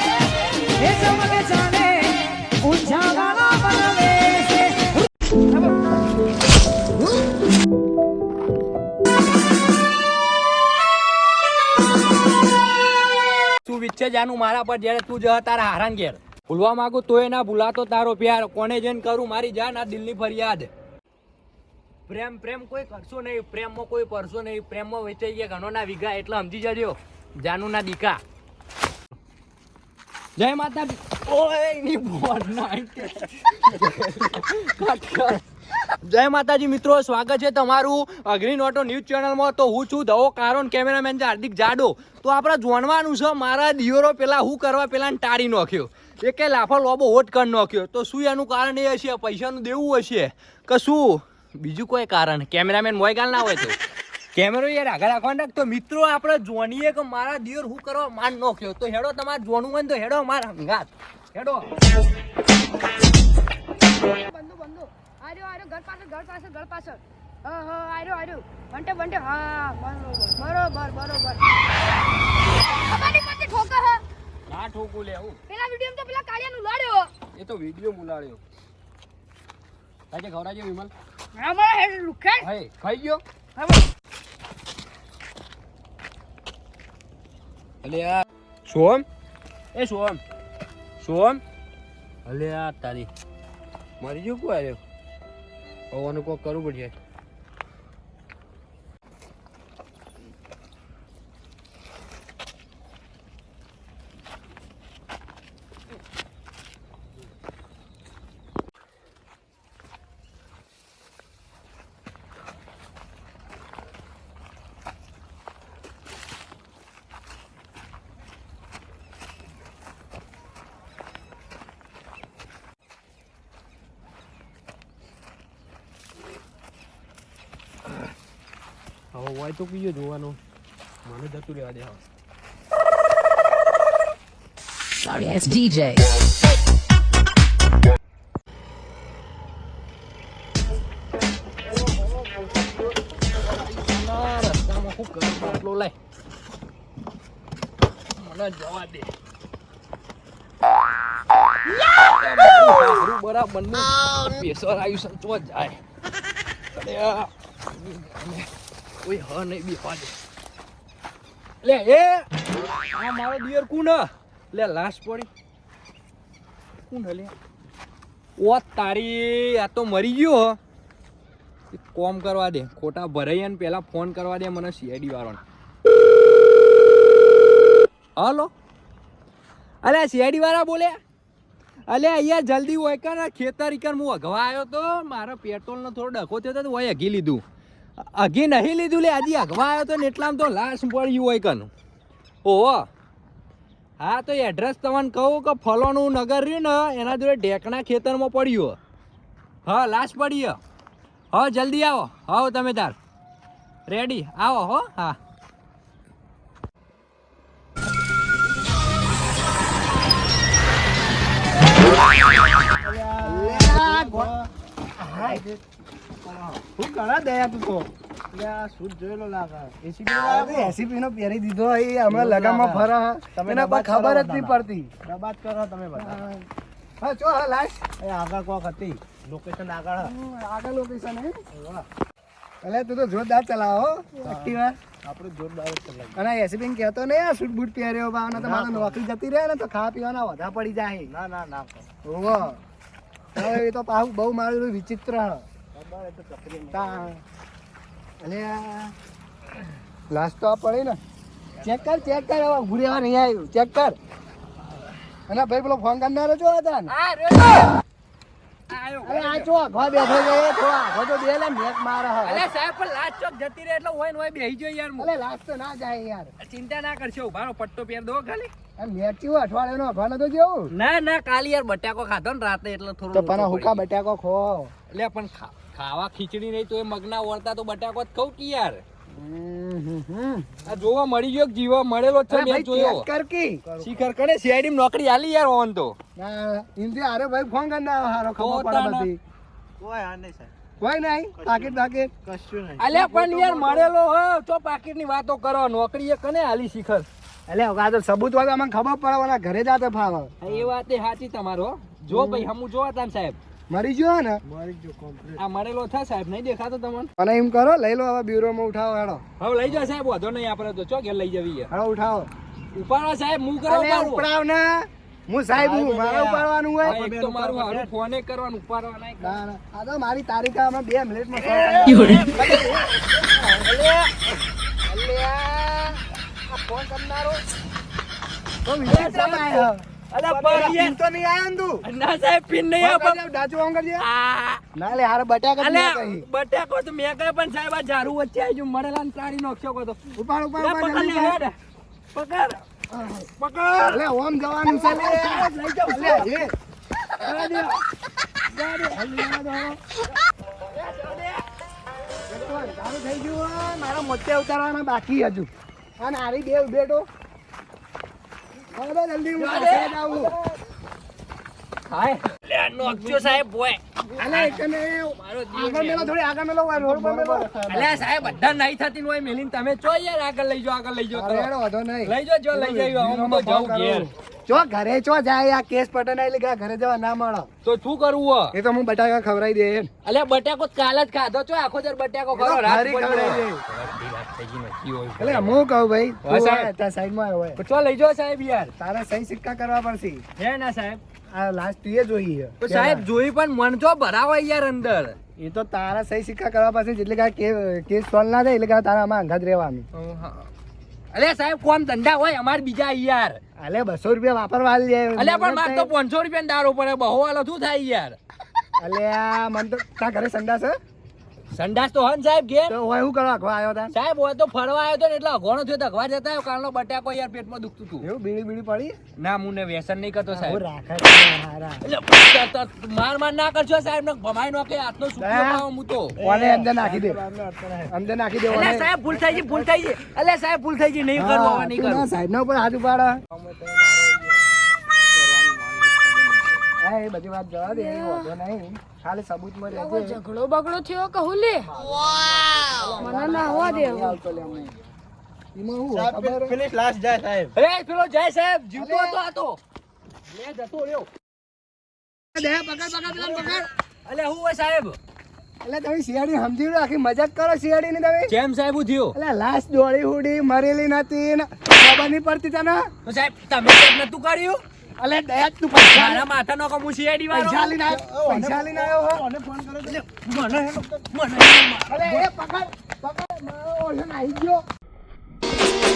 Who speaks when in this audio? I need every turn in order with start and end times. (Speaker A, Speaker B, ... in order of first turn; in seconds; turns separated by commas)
Speaker A: 0.8-5.0, Speaker B: 2.6-4.4, Speaker B: 5.6-5.9, Speaker A: 13.6-20.7, Speaker A: 22.1-28.2, Speaker A: 30.4-35.4, Speaker A: 36.0-53.8, Speaker A: 54.3-61.7, Speaker B: 64.1-71.4, Speaker B: 72.8-74.0, Speaker A: 74.5-75.4, Speaker B: 75.5-77.1, Speaker A: 77.3-78.4, Speaker A: 80.1-80.9, Speaker B: 81.4-82.5, Speaker A: 82.4-83.2, Speaker B: 83.6-83.8, Speaker A: 87.8-89.0, Speaker A: 89.7-90.2, Speaker A: 91.0-91.4, Speaker A: 92.2-93.1, Speaker A: 94.0-94.8, Speaker A: 95.9-96.9, Speaker C: 129.1-130.3, Speaker A: 129.2-130.3, Speaker A: 131.1-132.0, Speaker A: 135.0-136.1, Speaker A: 143.4-145.9, Speaker A: 148.2-149.1, Speaker A: 152.0-155.8, Speaker A: 156.7-158.5, Speaker A: 159.0-160.1, Speaker A: 161.6-162.3, Speaker A: 162.9-165.3, Speaker A: 166.9-167.3, Speaker A: 168.4-170.6, Speaker A: 171.7-175.4, Speaker A: 178.2-178.5, Speaker A: 179.8-181.0, Speaker A: 181.9-187.4, Speaker A: 188.0-191.7, Speaker A: 192.4-192.9, Speaker A: 194.0-198.8, Speaker A: 199.7-200.6, Speaker A: 201.3-203.0, Speaker A: 203.9-205.2, Speaker C: 212.7-214.5, Speaker D: 213.2-214.3, Speaker D: 215.0-215.4, Speaker C: 215.1-215.6, Speaker C: 216.2-216.8, Speaker D: 216.8-217.9, Speaker C: 218.3-220.8, Speaker D: 220.1-224.9, Speaker C: 222.1-226.3, Speaker D: 226.0-226.5, Speaker D: 227.0-227.8, Speaker C: 228.0-230.1, Speaker D: 230.0-231.4, Speaker C: 231.5-231.9, Speaker D: 232.6-234.8, Speaker C: 234.2-236.2, Speaker D: 236.2-241.1, Speaker C: 238.3-239.0, Speaker C: 241.0-241.9, Speaker D: 242.1-242.6, Speaker D: 243.3-245.4, Speaker C: 245.7-247.1, Speaker D: 246.7-247.2, Speaker D: 248.2-248.9, Speaker D: 250.1-251.0, Speaker D: 251.6-254.0, Speaker D: 255.3-256.9, Speaker A: 256.9-257.7, Speaker A: 258.7-259.5, Speaker D: 259.0-262.4, Speaker A: 262.2-265.1, Speaker D: 265.0-266.3, Speaker A: 266.4-268.5, Speaker D: 268.8-270.7, Speaker A: 270.7-273.9, Speaker D: 273.1-274.7, Speaker A: 274.9-278.8, Speaker D: 279.1-280.6, Speaker A: 280.6-283.1, Speaker D: 282.3-283.6, Speaker C: 283.7-284.1, Speaker A: 283.8-286.0, Speaker D: 286.2-289.2, Speaker A: 288.4-289.1, Speaker C: 289.8-290.5, Speaker D: 290.8-292.1, Speaker C: 291.4-293.9, Speaker A: 292.8-297.1, Speaker D: 297.5-300.3, Speaker A: 300.4-303.4, Speaker D: 302.1-302.5, Speaker D: 303.7-304.4, Speaker C: 304.4-305.4, Speaker A: 305.4-307.1, Speaker D: 307.2-309.2, Speaker A: 309.4-311.7, Speaker D: 311.7-312.3, Speaker A: 312.7-314.3, Speaker D: 313.6-317.0, Speaker C: 315.6-317.9, Speaker A: 316.8-319.4, Speaker D: 319.2-323.5, Speaker A: 321.5-322.8, Speaker A: 323.6-324.3, Speaker D: 324.9-327.4, Speaker D: 328.6-331.8, Speaker A: 328.9-331.0, Speaker A: 331.8-333.2, Speaker D: 332.8-334.1, Speaker A: 334.0-334.6, Speaker D: 334.8-336.3, Speaker A: 335.6-340.0, Speaker D: 340.1-341.4, Speaker A: 340.6-341.6, Speaker A: 342.1-342.6, Speaker D: 342.9-343.3, Speaker A: 343.4-344.0, Speaker D: 343.9-346.5, Speaker A: 344.7-346.5, Speaker A: 347.1-347.9, Speaker A: 348.6-349.0, Speaker D: 348.9-349.8, Speaker A: 350.6-351.4, Speaker D: 352.3-357.1, Speaker D: 358.7-360.4, Speaker A: 359.4-360.0, Speaker A: 361.9-366.1, Speaker C: 362.9-363.3, Speaker D: 364.2-367.5, Speaker C: 366.7-368.6, Speaker A: 367.7-371.5, Speaker D: 371.1-377.5, Speaker A: 372.1-374.1, Speaker A: 377.6-378.6, Speaker D: 378.5-379.9, Speaker A: 380.0-385.6, Speaker D: 382.3-383.6, Speaker D: 385.2-387.6, Speaker A: 386.2-386.7, Speaker A: 387.6-388.7, Speaker D: 388.8-390.2, Speaker A: 390.4-391.0, Speaker D: 391.3-393.1, Speaker A: 392.6-395.2, Speaker D: 395.4-399.9, Speaker A: 399.9-400.5, Speaker A: 401.1-403.4, Speaker D: 403.6-405.9, Speaker A: 405.2-408.2, Speaker D: 408.8-410.8, Speaker A: 411.5-412.8, Speaker D: 412.7-413.9, Speaker A: 413.9-418.1, Speaker D: 418.0-418.9, Speaker A: 419.2-420.6, Speaker D: 420.3-421.8, Speaker A: 421.8-426.2, Speaker D: 425.2-425.6, Speaker C: 426.2-427.9, Speaker D: 426.2-427.2, Speaker D: 427.9-428.9, Speaker A: 428.5-432.1, Speaker C: 429.1-429.7, Speaker D: 431.1-433.2, Speaker A: 433.4-433.6, Speaker C: 433.6-434.2, Speaker C: 435.0-436.6, Speaker D: 436.8-440.2, Speaker B: 437.7-438.3, Speaker B: 439.7-441.7, Speaker C: 441.7-442.8, Speaker D: 442.7-444.7, Speaker B: 443.0-444.2, Speaker D: 445.6-446.6, Speaker C: 445.9-447.6, Speaker A: 447.5-449.6, Speaker D: 448.8-449.2, Speaker A: 450.3-451.1, Speaker D: 452.3-453.7, Speaker A: 454.1-455.0, Speaker D: 455.6-458.3, Speaker A: 458.3-459.2, Speaker D: 459.1-462.9, Speaker A: 463.1-464.6, Speaker D: 465.0-466.3, Speaker A: 465.9-467.8, Speaker D: 467.3-469.3, Speaker C: 467.9-471.0, Speaker A: 469.8-472.2, Speaker D: 471.9-474.6